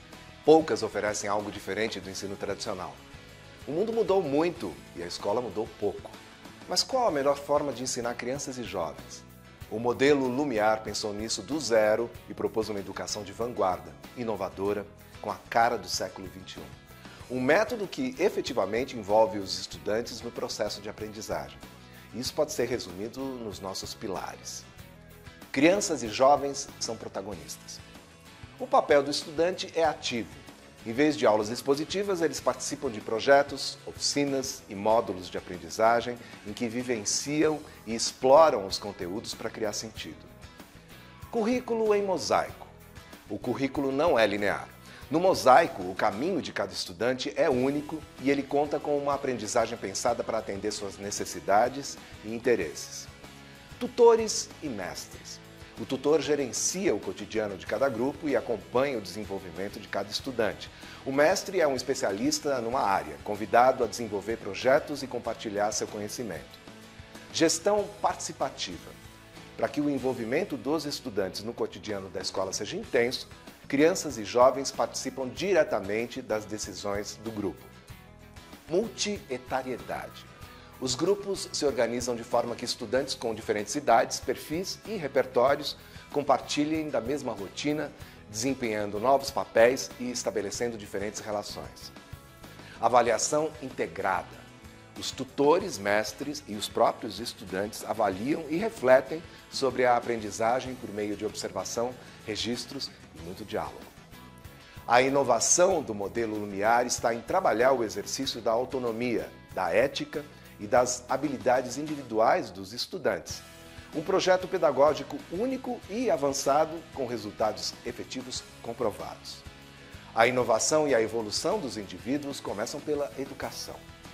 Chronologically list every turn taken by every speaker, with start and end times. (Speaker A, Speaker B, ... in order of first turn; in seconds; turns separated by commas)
Speaker A: 0.5-3.0, Speaker A: 3.6-16.7, Speaker A: 17.3-24.7, Speaker A: 25.5-27.8, Speaker A: 28.6-40.3, Speaker A: 41.3-42.7, Speaker A: 43.3-53.1, Speaker A: 53.8-66.6, Speaker A: 67.3-69.0, Speaker A: 69.6-77.7, Speaker A: 78.7-91.9, Speaker A: 92.8-94.4, Speaker A: 95.0-103.9, Speaker A: 104.9-119.5, Speaker A: 120.1-123.8